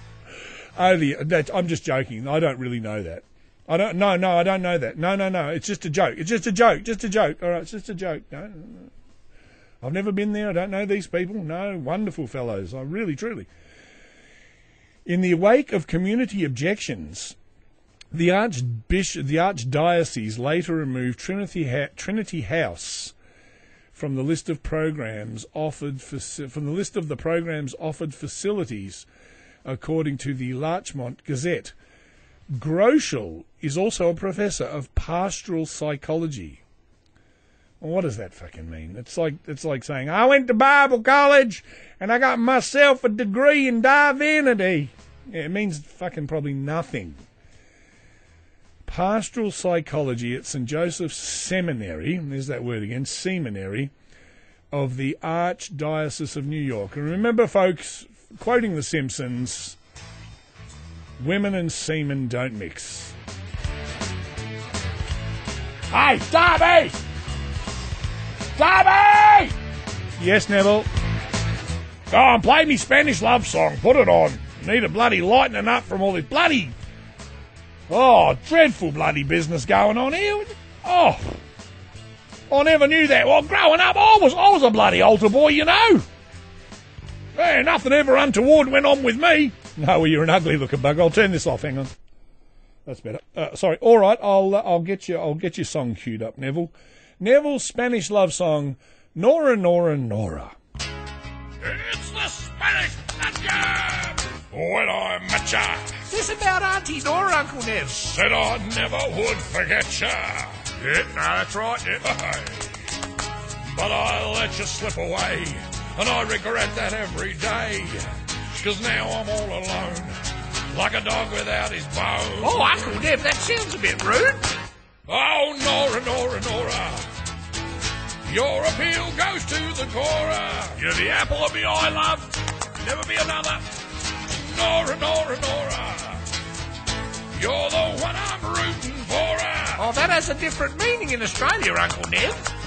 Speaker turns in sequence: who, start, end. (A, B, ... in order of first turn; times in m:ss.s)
0:00.8-0:08.9 A
0:09.8-0:13.5 A
0:15.1-0:17.4 A
0:18.1-0:23.1 A
0:23.9-0:29.1 A
0:29.6-0:31.8 A
0:32.5-0:36.6 A
0:37.8-0:47.2 A
0:48.9-0:53.9 A
0:54.7-0:59.8 A
1:01.2-1:03.1 A
1:05.9-1:07.0 B
1:08.6-1:09.5 B
1:10.2-1:10.9 A
1:12.1-1:16.7 B
1:17.9-1:21.1 A
1:18.4-1:20.4 B
1:20.9-1:21.2 B
1:22.5-1:26.0 B
1:27.4-1:29.6 B
1:29.6-1:31.9 A
1:32.9-1:40.6 A
1:41.6-1:46.0 B
1:46.1-1:48.1 C
1:48.1-1:52.7 B
1:53.6-2:00.2 B
2:00.7-2:03.0 B
2:02.4-2:04.5 C
2:05.1-2:07.1 B
2:08.3-2:13.7 B
2:14.2-2:16.2 B
2:17.4-2:19.9 B
2:19.8-2:22.5 C